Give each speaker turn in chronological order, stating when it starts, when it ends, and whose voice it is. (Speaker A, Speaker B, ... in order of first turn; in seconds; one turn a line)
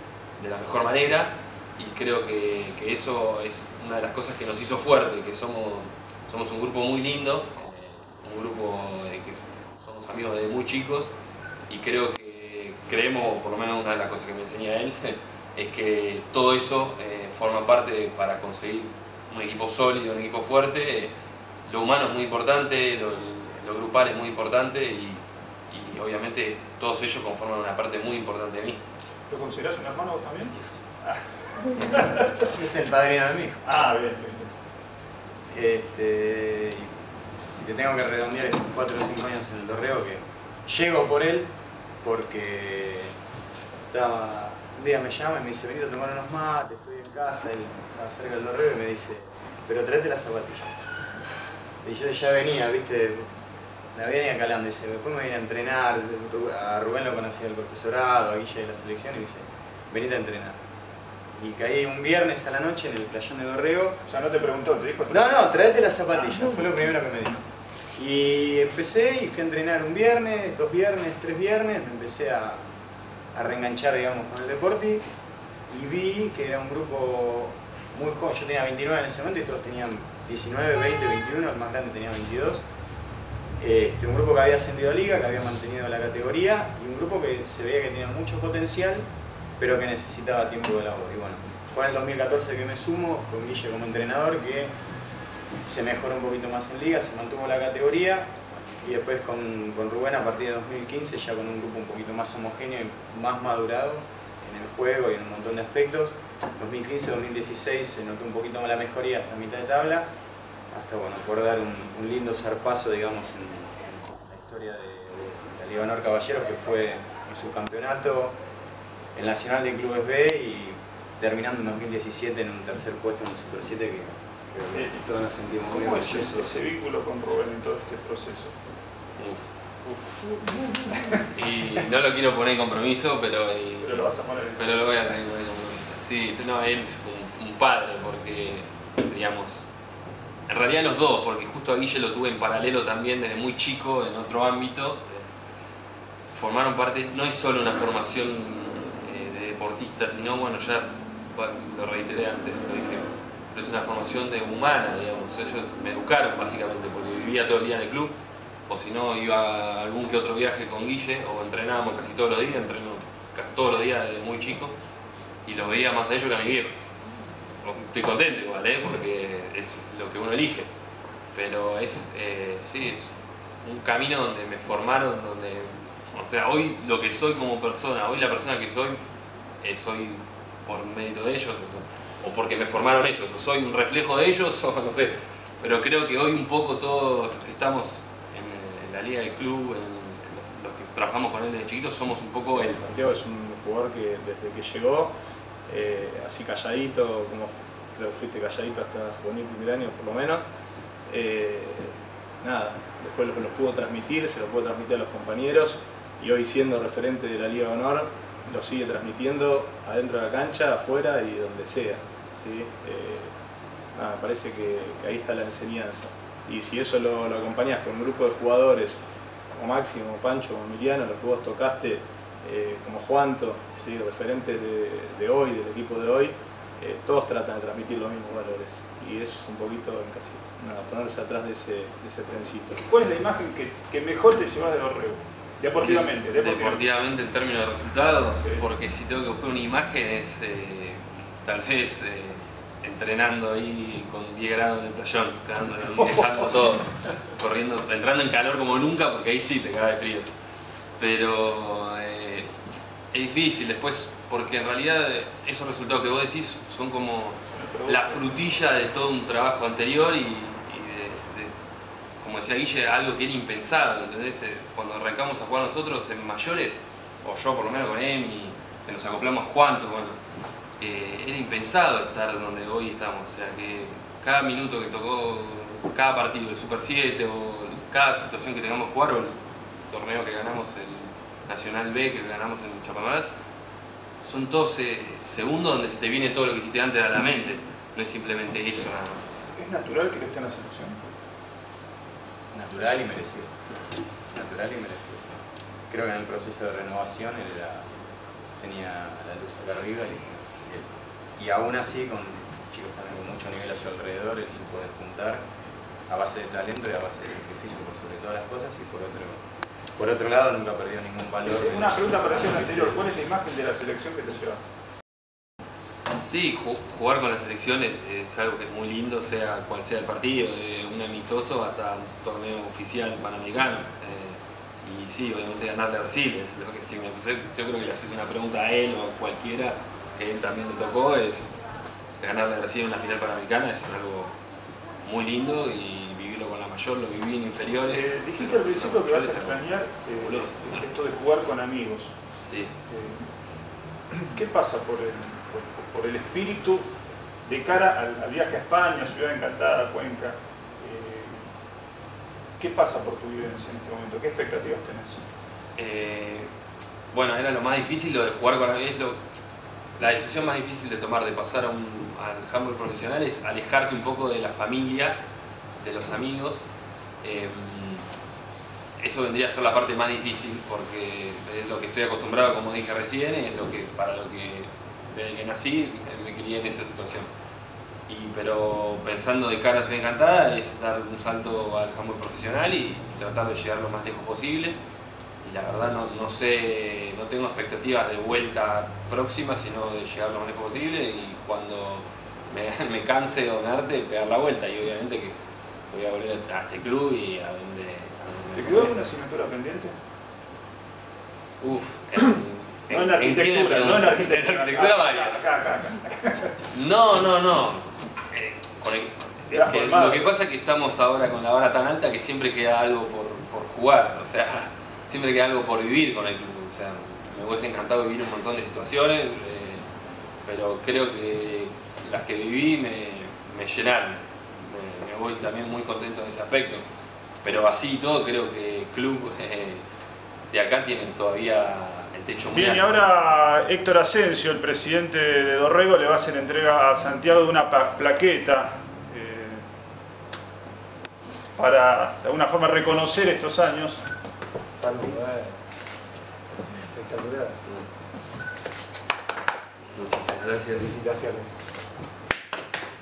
Speaker A: 0.4-11.1
Speaker A: 11.7-21.1
Speaker A: 21.7-28.8
Speaker B: 29.3-32.5
Speaker C: 32.4-33.6
Speaker B: 33.6-34.5
Speaker C: 35.5-36.9
Speaker C: 37.5-41.5
Speaker C: 42.0-43.1
Speaker C: 43.9-50.7
Speaker C: 51.8-53.3
Speaker C: 53.9-60.6
Speaker C: 61.4-64.0
Speaker B: 64.0-65.7
Speaker C: 65.1-67.4
Speaker C: 68.0-72.6
Speaker C: 73.3-75.0
Speaker C: 75.7-82.6
Speaker C: 83.6-89.1
Speaker C: 89.6-94.7
Speaker C: 95.6-110.1
Speaker C: 110.7-118.3
Speaker C: 119.2-126.5
Speaker B: 124.7-125.1
Speaker B: 125.7-128.6
Speaker A: 129.2-129.5
Speaker B: 129.8-131.2
Speaker A: 131.3-139.7
Speaker B: 133.8-134.9
Speaker A: 140.5-145.3
Speaker A: 146.3-158.2
Speaker A: 158.7-164.7
Speaker A: 165.5-166.8
Speaker A: 167.6-170.7
Speaker A: 171.3-179.0
Speaker A: 179.6-192.8
Speaker D: 192.5-195.1
Speaker D: 195.7-200.4
Speaker D: 201.1-213.3
Speaker D: 213.9-232.8
Speaker B: 232.7-236.9
Speaker A: 235.8-250.3
Speaker B: 238.3-238.7
Speaker B: 246.1-246.4
Speaker A: 251.0-252.5
Speaker A: 253.1-261.5
Speaker B: 257.5-258.2
Speaker A: 262.2-270.2
Speaker A: 270.8-279.4
Speaker A: 279.9-283.3
Speaker A: 284.2-289.4
Speaker B: 289.5-291.0
Speaker C: 292.5-293.5
Speaker C: 294.3-297.9
Speaker C: 298.6-305.4
Speaker C: 306.1-309.4
Speaker C: 310.0-313.0
Speaker B: 311.5-314.7
Speaker A: 316.1-331.6
Speaker A: 332.2-334.4
Speaker A: 335.0-340.9
Speaker B: 337.9-342.2
Speaker A: 342.4-342.7
Speaker B: 342.9-343.2
Speaker B: 344.1-346.9
Speaker B: 347.4-351.4
Speaker B: 352.6-355.2
Speaker A: 355.8-356.5
Speaker A: 357.1-359.2
Speaker A: 360.0-365.2
Speaker A: 365.8-366.6
Speaker A: 367.2-368.1
Speaker A: 369.0-377.3
Speaker A: 378.1-384.8
Speaker A: 385.4-395.4
Speaker A: 395.9-399.0
Speaker B: 398.6-400.0
Speaker A: 401.6-405.5
Speaker B: 402.9-406.6
Speaker A: 406.7-419.8
Speaker B: 409.5-410.3
Speaker A: 420.4-426.9
Speaker A: 427.4-429.8
Speaker A: 430.5-432.9
Speaker B: 432.5-439.6
Speaker B: 441.6-444.1
Speaker E: 444.8-445.6
Speaker E: 446.9-447.6
Speaker A: 449.9-450.9
Speaker E: 450.8-451.6